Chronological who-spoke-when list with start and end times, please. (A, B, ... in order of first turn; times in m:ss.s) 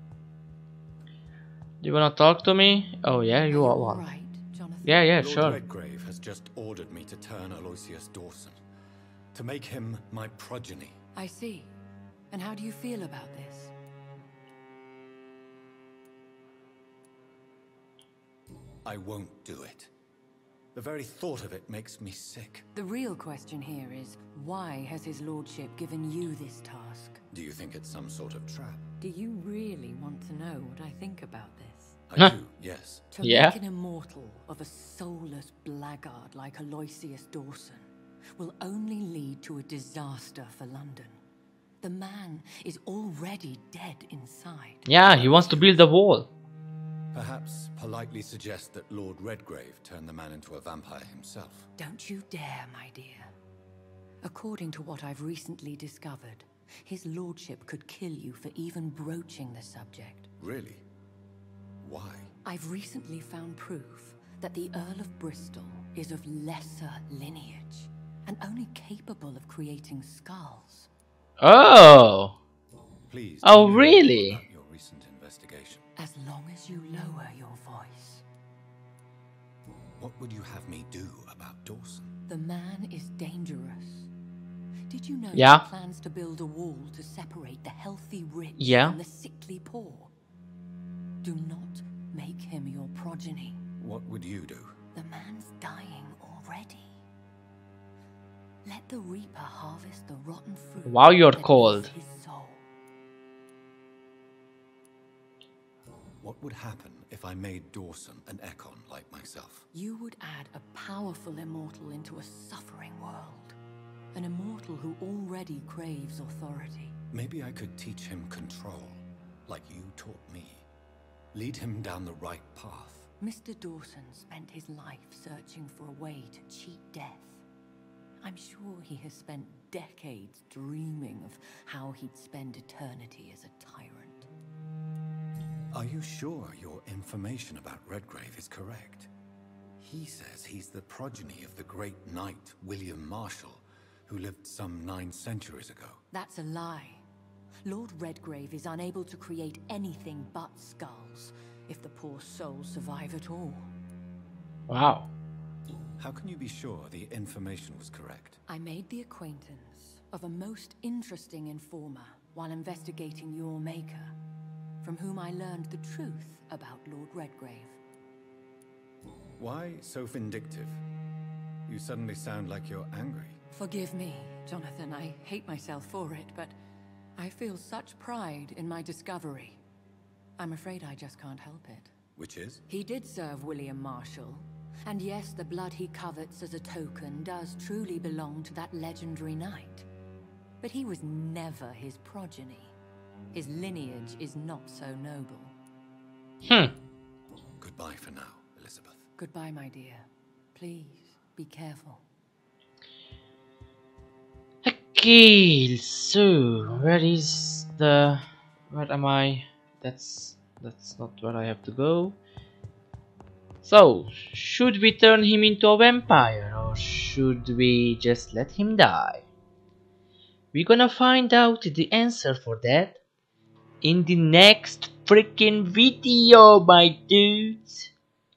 0:01.8-0:04.0 A
0:03.5-0:05.2 B
0:04.8-0:05.6 A
0:05.2-0:08.6 C
0:09.3-0:11.0 C
0:11.1-0:11.8 B
0:12.3-0:13.7 B
0:18.8-0:19.9 C
0:20.7-0:22.7 C
0:22.8-0:27.2 B
0:27.3-0:28.9 C
0:29.0-0:32.0 B
0:32.1-0:33.0 C
0:33.1-0:41.2 B
0:33.2-0:33.6 A
0:41.8-0:44.9 B
0:44.9-0:46.3 A
0:45.0-0:45.9 C
0:47.1-0:51.7 C
0:51.8-0:53.3 B
0:54.2-1:00.3 B
1:00.4-1:00.8 C
1:01.8-1:02.3 C
1:02.4-1:10.9 B
1:11.4-1:12.4 A
1:13.1-1:15.9 C
1:13.4-1:14.4 A
1:16.0-1:18.2 B
1:20.0-1:22.1 C
1:22.3-1:24.1 B
1:24.9-1:30.1 B
1:25.3-1:25.6 A
1:28.6-1:29.0 A
1:31.2-1:33.6 B
1:33.8-1:34.8 C
1:34.9-1:37.0 B
1:38.6-1:42.6 B
1:40.8-1:41.9 A
1:46.2-1:49.6 C
1:49.7-1:53.6 B
1:54.1-1:57.0 B
1:57.1-2:00.6 C
2:01.3-2:03.1 C
2:03.2-2:07.4 B
2:08.2-2:14.3 B
2:15.7-2:19.1 C
2:19.8-2:26.0 C
2:26.1-2:27.0 B
2:27.6-2:33.7 B
2:34.7-2:35.1 A
2:36.0-2:38.4 C
2:38.5-2:44.1 B
2:44.8-2:47.8 B
2:49.4-2:50.8 C
2:51.7-2:53.4 C
2:53.5-2:56.6 B
2:57.2-2:59.6 B
3:00.4-3:01.9 B
3:02.2-3:02.6 C
3:02.7-3:09.9 B
3:10.6-3:12.7 B
3:13.3-3:15.6 B
3:16.4-3:16.7 A
3:17.6-3:19.0 C
3:19.2-3:22.0 B
3:24.6-3:32.2 A
3:33.6-3:39.2 A
3:40.5-3:43.0 A
3:43.8-3:47.9 A